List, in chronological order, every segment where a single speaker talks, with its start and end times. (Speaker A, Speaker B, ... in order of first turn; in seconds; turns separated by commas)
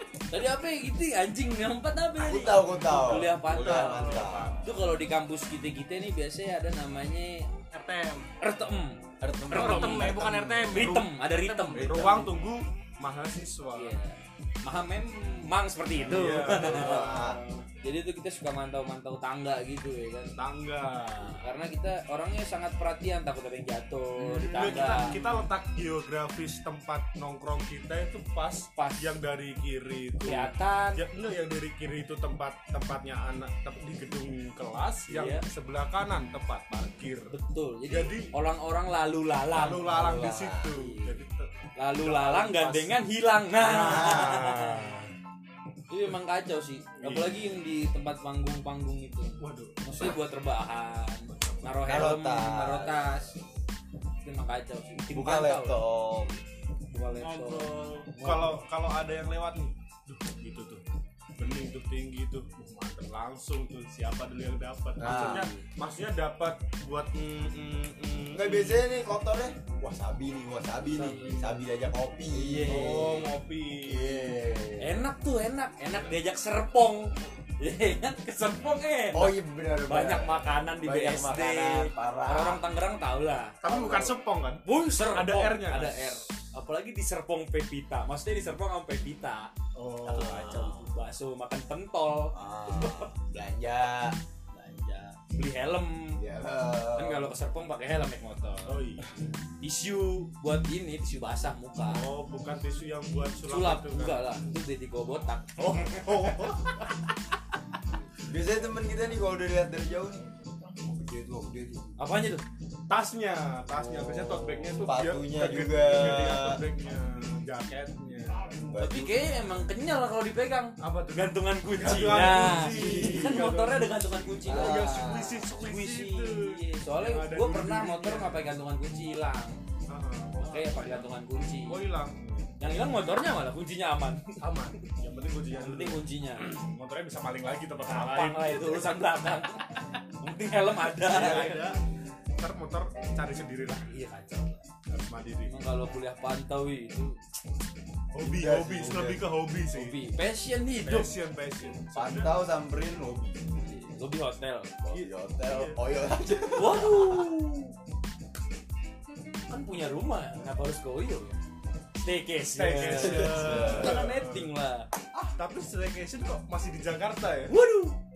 Speaker A: 0.3-7.5, Speaker B: 2.1-4.6, Speaker C: 3.5-4.7, Speaker D: 7.7-8.3, Speaker A: 8.4-10.2, Speaker B: 9.2-10.9, Speaker D: 9.5-11.9, Speaker A: 10.7-12.4, Speaker C: 10.8-11.0, Speaker C: 11.7-13.9, Speaker A: 13.7-20.3, Speaker C: 16.0-17.6, Speaker B: 16.1-17.4, Speaker C: 20.4-21.4, Speaker A: 21.2-25.2, Speaker C: 24.2-37.3, Speaker A: 28.8-29.1, Speaker A: 30.2-31.0, Speaker A: 35.1-35.5, Speaker A: 37.3-39.9, Speaker C: 37.9-38.3, Speaker C: 39.5-43.0, Speaker B: 39.7-40.9, Speaker A: 40.7-41.2, Speaker A: 41.8-44.9, Speaker B: 43.6-45.0, Speaker C: 43.7-44.6, Speaker A: 45.9-53.3, Speaker C: 47.0-47.4, Speaker C: 49.4-49.8, Speaker C: 51.3-51.7, Speaker B: 51.8-53.2, Speaker A: 54.2-55.8, Speaker B: 55.1-56.4, Speaker A: 56.9-58.6, Speaker D: 57.2-58.1, Speaker C: 58.1-60.8, Speaker C: 61.4-68.8, Speaker B: 65.0-65.5, Speaker A: 65.0-65.6, Speaker B: 68.3-73.3, Speaker A: 70.9-71.6, Speaker A: 72.3-73.3, Speaker C: 72.6-74.4, Speaker B: 73.8-75.1, Speaker A: 74.8-83.6, Speaker B: 79.1-82.6, Speaker C: 83.6-86.1, Speaker B: 83.6-84.2, Speaker A: 84.6-89.5, Speaker C: 89.7-90.5, Speaker B: 90.0-90.9, Speaker A: 90.0-93.1, Speaker B: 92.3-94.2, Speaker A: 94.5-96.2, Speaker B: 96.2-97.3, Speaker A: 97.0-98.8, Speaker C: 98.7-99.1, Speaker A: 99.6-102.0, Speaker C: 101.9-104.2, Speaker A: 103.4-106.6, Speaker C: 105.6-106.8, Speaker B: 108.3-110.2, Speaker B: 110.8-111.9, Speaker A: 112.0-112.4, Speaker C: 112.9-118.5, Speaker B: 113.8-116.6, Speaker B: 118.7-119.5, Speaker A: 118.8-129.6, Speaker C: 120.8-128.5, Speaker B: 122.0-123.5, Speaker B: 124.4-125.4, Speaker C: 129.9-133.1, Speaker A: 130.4-131.9, Speaker A: 132.6-134.4, Speaker C: 134.4-138.9, Speaker A: 135.6-136.6, Speaker A: 137.8-141.6, Speaker C: 141.0-141.8, Speaker C: 142.4-143.9, Speaker A: 143.8-144.6, Speaker C: 144.9-145.6, Speaker A: 145.4-147.2, Speaker C: 148.1-150.0, Speaker B: 148.2-149.3, Speaker A: 149.7-151.1, Speaker C: 150.8-152.4, Speaker B: 151.9-153.5, Speaker A: 153.6-154.8, Speaker B: 154.8-157.3, Speaker C: 154.9-155.8, Speaker A: 156.6-157.7, Speaker A: 159.5-161.4, Speaker A: 162.0-164.9, Speaker C: 162.5-164.5, Speaker B: 162.9-164.1, Speaker C: 165.4-167.6, Speaker A: 167.5-168.0